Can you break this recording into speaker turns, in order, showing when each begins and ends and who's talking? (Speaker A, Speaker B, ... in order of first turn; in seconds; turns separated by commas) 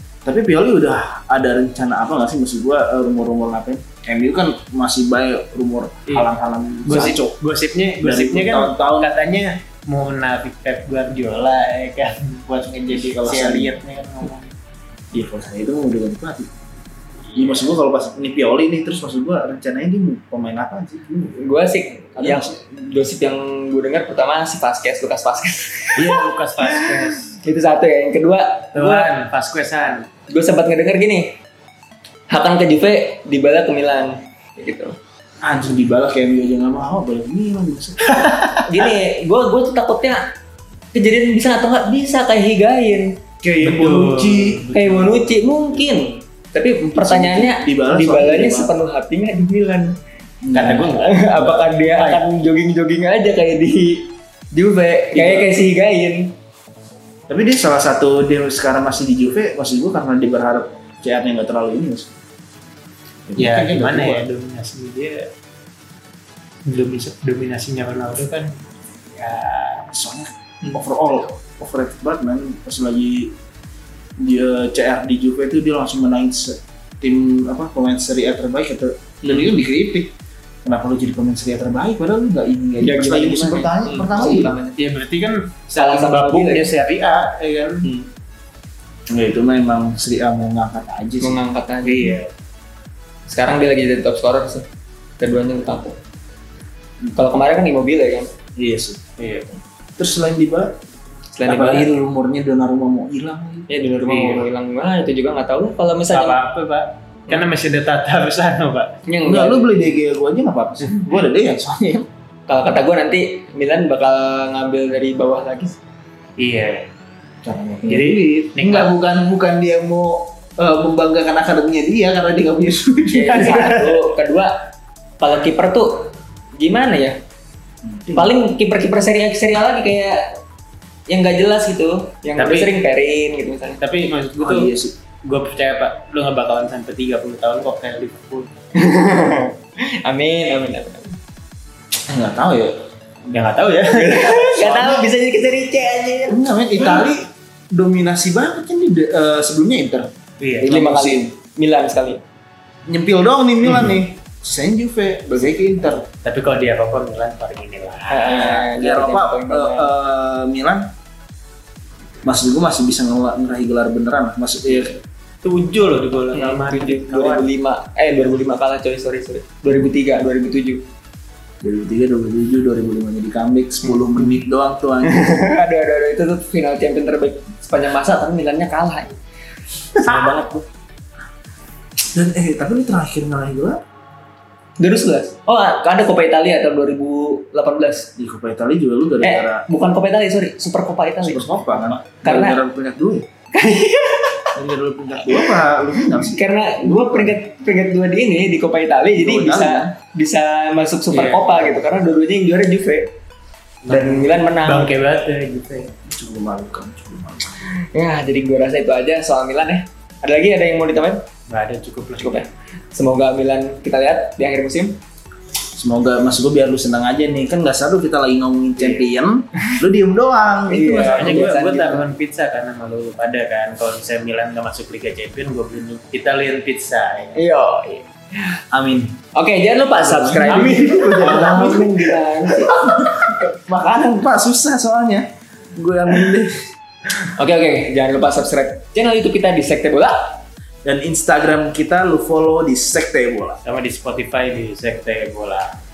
Speaker A: 0.2-7.3, Speaker B: 6.8-14.5, Speaker A: 8.0-9.1, Speaker A: 12.9-13.7, Speaker A: 15.1-16.5, Speaker B: 17.3-17.7, Speaker A: 17.3-21.4, Speaker C: 21.4-29.1, Speaker A: 22.1-22.6, Speaker B: 25.9-27.3, Speaker B: 28.7-30.1, Speaker C: 30.3-31.3, Speaker C: 32.3-34.9, Speaker A: 35.4-38.2, Speaker B: 38.1-38.9, Speaker C: 38.6-40.2, Speaker C: 40.9-43.1, Speaker A: 43.4-44.7, Speaker B: 43.6-45.6, Speaker C: 44.7-49.9, Speaker A: 46.9-48.7, Speaker A: 50.4-50.9, Speaker B: 50.5-52.2, Speaker C: 51.0-56.3, Speaker B: 55.1-55.5, Speaker A: 57.3-62.1, Speaker A: 63.3-64.2, Speaker B: 63.4-65.3, Speaker B: 66.7-68.5, Speaker B: 69.1-69.9, Speaker A: 69.9-73.3, Speaker A: 74.2-80.1, Speaker B: 79.2-79.5, Speaker A: 80.6-84.5, Speaker C: 82.8-84.8, Speaker B: 84.2-87.8, Speaker C: 85.8-86.7, Speaker C: 87.8-88.1, Speaker A: 89.1-91.3, Speaker C: 91.2-92.2, Speaker B: 91.8-92.3, Speaker C: 93.3-94.6, Speaker C: 95.2-96.0, Speaker C: 97.2-98.3, Speaker A: 98.5-99.1, Speaker B: 99.2-99.6, Speaker A: 100.0-100.8, Speaker C: 101.3-101.9, Speaker A: 101.4-103.7, Speaker C: 103.7-106.4, Speaker B: 104.0-104.5, Speaker B: 106.1-109.0, Speaker C: 109.1-109.9, Speaker A: 109.2-112.1, Speaker C: 112.5-115.8, Speaker B: 116.4-116.9, Speaker A: 117.4-123.7, Speaker B: 117.9-118.9, Speaker C: 123.1-124.5, Speaker B: 123.3-124.0, Speaker C: 125.2-127.2, Speaker A: 127.8-128.3, Speaker C: 128.1-130.2, Speaker C: 131.1-133.8, Speaker B: 132.4-132.7, Speaker B: 133.8-134.7, Speaker A: 134.4-134.9, Speaker B: 135.2-138.5, Speaker C: 138.8-141.1, Speaker A: 142.1-142.8, Speaker B: 143.3-145.0, Speaker C: 143.9-147.1, Speaker A: 146.3-151.3, Speaker B: 150.4-150.7, Speaker C: 150.6-152.2, Speaker A: 152.9-156.1, Speaker B: 156.2-158.6, Speaker C: 158.1-159.9, Speaker A: 158.2-160.9, Speaker A: 162.2-165.0, Speaker B: 165.4-167.5, Speaker C: 166.3-170.8, Speaker A: 171.6-175.3, Speaker C: 175.0-179.2, Speaker C: 180.0-180.6, Speaker B: 180.1-180.4, Speaker A: 182.1-183.8, Speaker C: 184.8-188.1, Speaker A: 188.2-189.6, Speaker C: 189.2-192.6, Speaker A: 191.2-193.3, Speaker C: 193.6-194.5, Speaker A: 194.6-197.3, Speaker C: 195.2-203.1, Speaker A: 199.1-199.9, Speaker B: 201.1-201.8, Speaker B: 203.8-205.9, Speaker C: 203.9-204.9, Speaker A: 206.1-207.5, Speaker C: 207.9-211.2, Speaker B: 211.5-212.5, Speaker C: 212.2-215.0, Speaker A: 215.8-221.5, Speaker B: 218.8-219.0, Speaker C: 220.7-222.1, Speaker B: 221.1-227.4, Speaker C: 227.3-228.1, Speaker A: 228.7-229.2, Speaker C: 229.3-233.3, Speaker A: 230.0-236.7, Speaker B: 230.6-231.4, Speaker C: 237.2-240.4, Speaker A: 240.8-243.6, Speaker B: 243.6-245.8